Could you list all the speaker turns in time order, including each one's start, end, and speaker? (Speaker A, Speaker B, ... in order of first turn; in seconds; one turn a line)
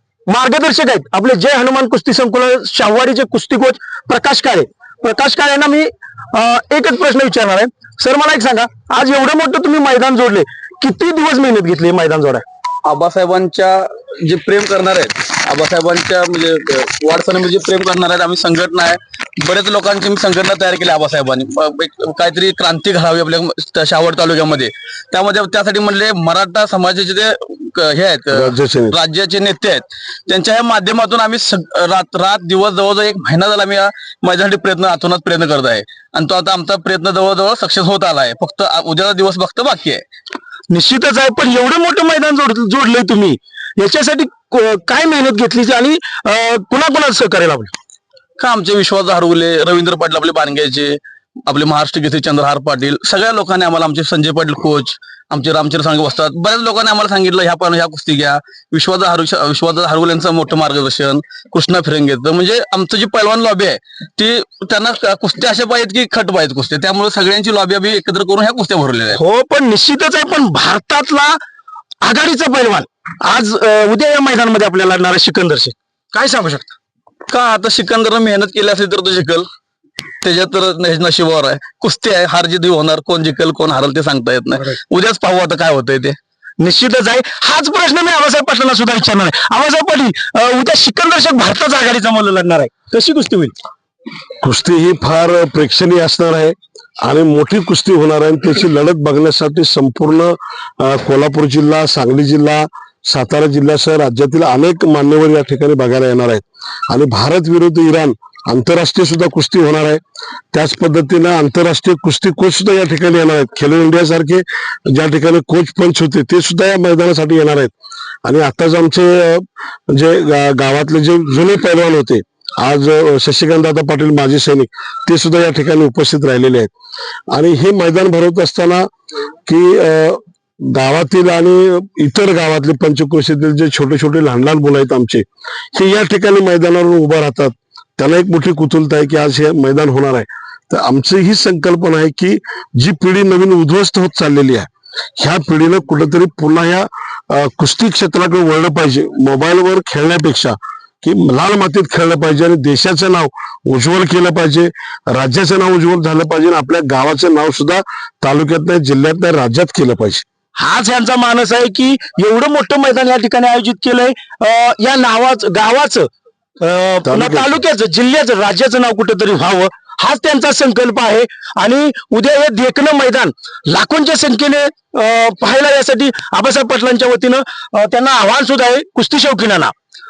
Speaker A: 0.3-12.4
Speaker B: 12.8-40.0
Speaker C: 28.3-29.0
Speaker A: 40.7-47.7
Speaker B: 48.4-69.2
Speaker A: 69.1-71.4
Speaker A: 72.0-76.7
Speaker B: 77.3-79.5
Speaker B: 80.2-86.2
Speaker A: 86.6-93.5
Speaker C: 94.4-110.0
Speaker C: 110.5-117.7
Speaker C: 118.2-126.7
Speaker C: 127.3-128.9
Speaker C: 129.4-160.2
Speaker A: 160.6-166.1
Speaker A: 166.6-179.7
Speaker C: 167.0-167.5